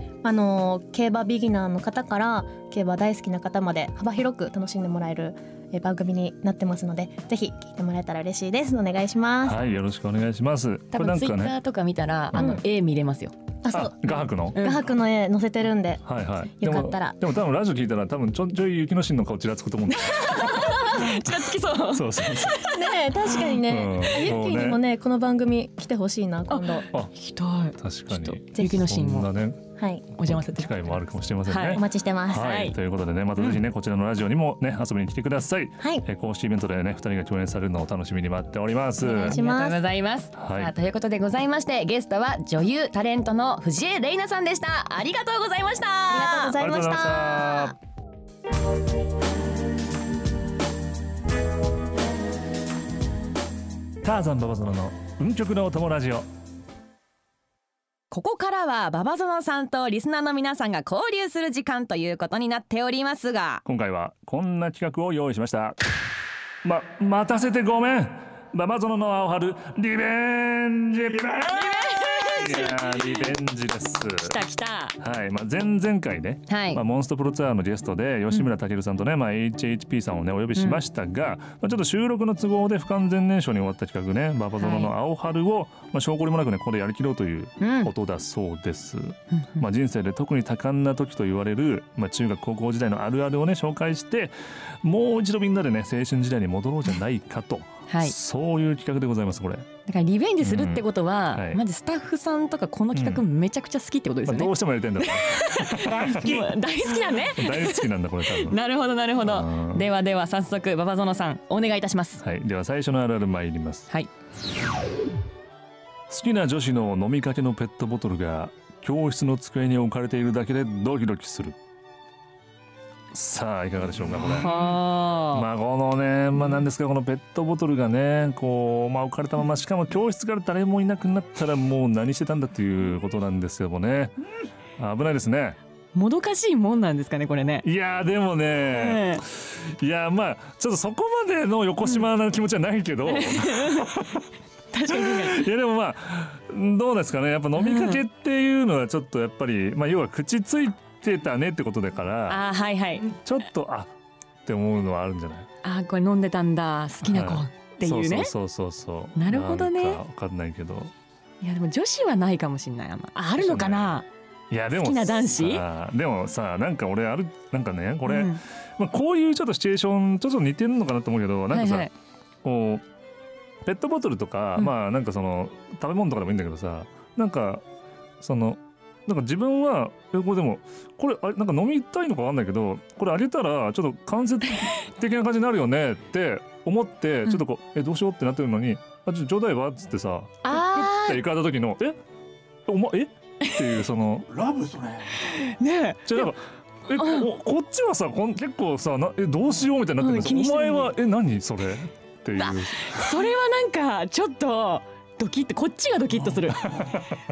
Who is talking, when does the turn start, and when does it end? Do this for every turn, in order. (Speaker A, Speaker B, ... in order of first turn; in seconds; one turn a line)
Speaker A: 0.2-9.6
Speaker B: 9.4-11.6
Speaker C: 10.9-13.3
Speaker B: 12.3-12.6
Speaker A: 12.3-12.6
Speaker A: 13.6-16.0
Speaker B: 13.7-14.6
Speaker C: 14.5-14.8
Speaker B: 16.0-22.6
Speaker A: 16.6-17.2
Speaker C: 19.9-23.4
Speaker A: 22.6-26.9
Speaker B: 23.6-24.8
Speaker C: 26.5-29.3
Speaker B: 27.8-29.6
Speaker A: 28.5-28.8
Speaker A: 29.8-30.1
Speaker C: 30.1-32.8
Speaker B: 30.2-39.4
Speaker A: 31.7-32.6
Speaker C: 39.0-46.6
Speaker A: 39.0-39.8
Speaker B: 40.4-40.7
Speaker A: 46.1-47.7
Speaker B: 46.6-47.7
Speaker B: 54.0-56.3
Speaker C: 58.1-63.6
Speaker B: 63.6-65.8
Speaker B: 66.6-74.4
Speaker C: 71.5-73.2
Speaker C: 74.2-75.0
Speaker B: 75.0-99.7
Speaker C: 76.5-76.8
Speaker C: 80.5-80.8
Speaker C: 84.6-84.9
Speaker C: 87.6-87.9
Speaker C: 89.3-89.6
Speaker C: 97.9-98.1
Speaker C: 99.8-112.2
Speaker B: 100.4-101.6
Speaker B: 102.9-103.2
Speaker B: 104.2-106.5
Speaker B: 107.0-108.6
Speaker B: 109.2-109.9
Speaker B: 112.2-113.9
Speaker B: 116.1-121.6
Speaker B: 123.1-124.8
Speaker C: 124.2-125.5
Speaker B: 125.3-134.1
Speaker B: 134.8-135.6
Speaker C: 135.9-137.7
Speaker B: 137.6-144.3
Speaker C: 138.7-139.2
Speaker C: 143.1-144.0
Speaker C: 144.7-145.5
Speaker B: 144.9-152.4
Speaker C: 147.6-148.0
Speaker C: 152.3-153.1
Speaker B: 153.1-153.9
Speaker B: 154.4-155.5
Speaker C: 155.6-158.3
Speaker B: 157.0-160.9
Speaker C: 159.2-160.0
Speaker C: 161.4-164.1
Speaker B: 163.4-171.9
Speaker C: 164.7-165.6
Speaker C: 168.1-168.4
Speaker C: 171.5-171.9
Speaker B: 172.4-172.8
Speaker B: 173.6-177.6
Speaker B: 178.2-192.0
Speaker C: 190.4-191.2
Speaker B: 192.7-194.9
Speaker C: 193.4-193.8
Speaker C: 195.1-196.3
Speaker B: 196.0-203.1
Speaker C: 196.9-197.3
Speaker C: 200.0-200.9
Speaker C: 202.3-206.7
Speaker B: 206.2-207.1